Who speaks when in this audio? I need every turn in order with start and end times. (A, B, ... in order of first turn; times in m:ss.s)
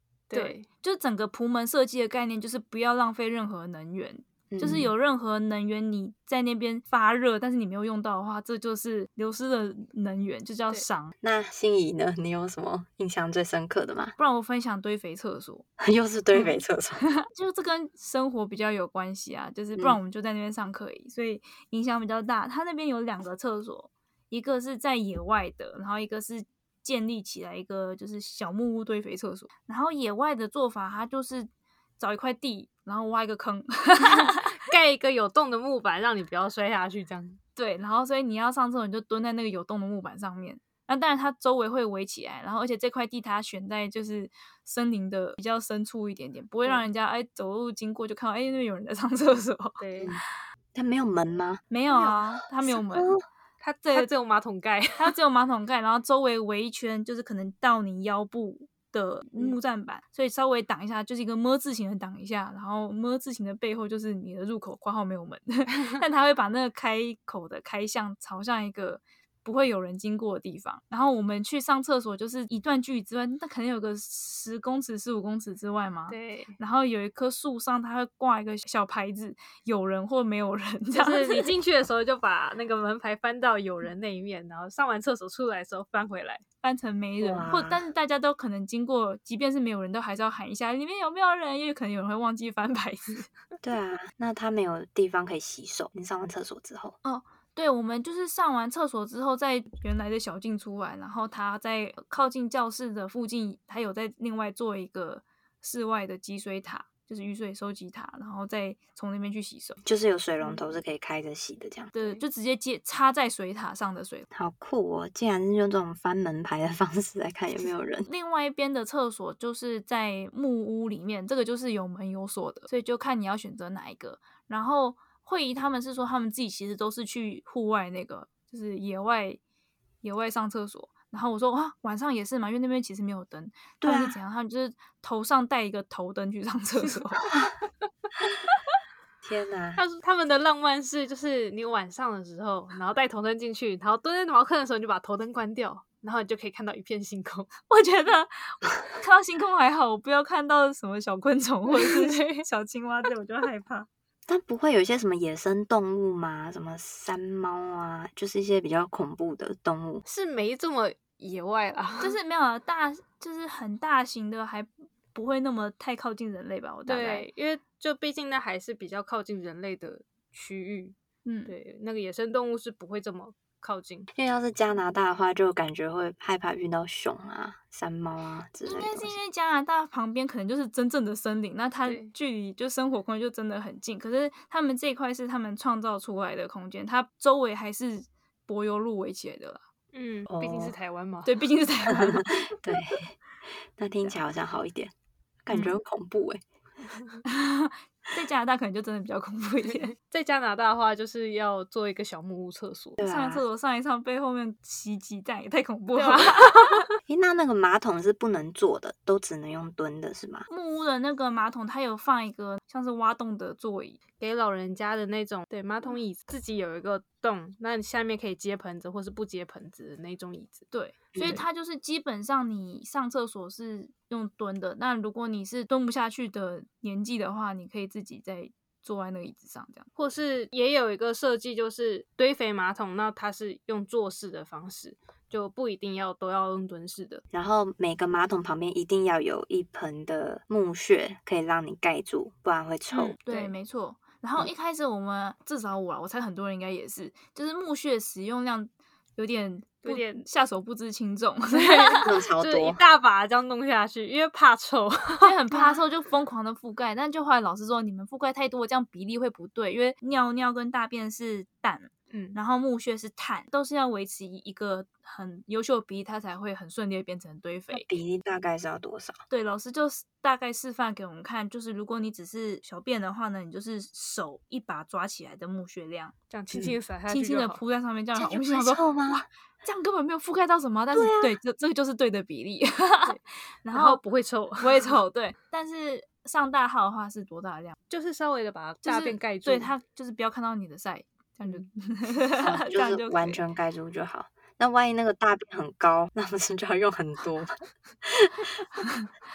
0:00.3-0:00.6 A
0:00.3-0:11.1 B
0:04.5-0:04.9 C
0:11.2-0:14.2 C
0:14.2-0:15.6 B
0:15.8-0:17.0 C
0:16.3-0:34.6 B
0:34.2-0:37.4 A
0:37.6-0:49.8 B
0:49.8-0:50.1 A
0:50.7-0:51.6 C
0:51.7-0:53.1 B
0:52.6-0:53.2 C
0:53.6-0:55.1 A
0:55.0-1:21.5 B
1:16.1-1:16.6 A
1:20.9-1:26.4 A
1:26.6-1:33.3 B
1:27.2-1:27.8 C
1:33.6-1:37.0 C
1:37.0-1:49.8 B
1:49.8-1:51.9 C
1:51.9-1:52.2 A
1:51.9-1:54.3 B
1:54.3-1:58.1 C
1:58.0-2:09.4 B
2:10.0-2:17.3 B
2:13.8-2:14.2 C
2:19.2-2:19.8 C
2:19.8-2:27.5 A
2:27.7-2:33.9 B
2:31.7-2:32.4 A
2:34.3-2:40.0 C
2:40.0-2:42.1 A
2:42.0-2:47.3 B
2:46.9-2:50.9 A
2:51.2-2:51.5 B
2:51.5-2:54.1 A
2:54.1-2:59.2 C
2:58.6-3:09.6 B
3:01.8-3:02.1 A
3:09.9-3:11.4 A
3:10.3-3:10.7 C
3:11.2-3:12.5 B
3:11.9-3:13.2 C
3:13.7-3:14.9 C
3:15.4-3:16.4 C
3:17.2-3:19.9 B
3:19.7-3:23.0 A
3:23.0-3:23.4 C
3:23.0-3:26.8 B
3:26.0-3:26.8 A
3:27.1-3:30.5 C
3:30.5-3:34.0 B
3:34.2-3:40.6 A
3:40.7-3:49.9 B
3:41.1-3:41.4 C
3:50.0-3:57.2 A
3:57.3-4:03.1 C
4:02.9-4:03.5 A
4:03.2-4:12.0 B
4:09.8-4:10.2 A
4:11.5-4:15.8 A
4:12.0-4:12.8 C
4:15.2-4:27.9 B
4:22.1-4:22.4 A
4:27.7-4:29.2 C
4:29.3-4:36.1 B
4:36.3-4:37.6 A
4:37.1-4:44.0 B
4:38.1-4:39.2 C
4:40.9-4:41.4 C
4:43.7-4:44.9 A
4:44.6-4:47.8 B
4:47.9-4:49.7 A
4:48.8-4:53.4 B
4:52.4-4:58.8 C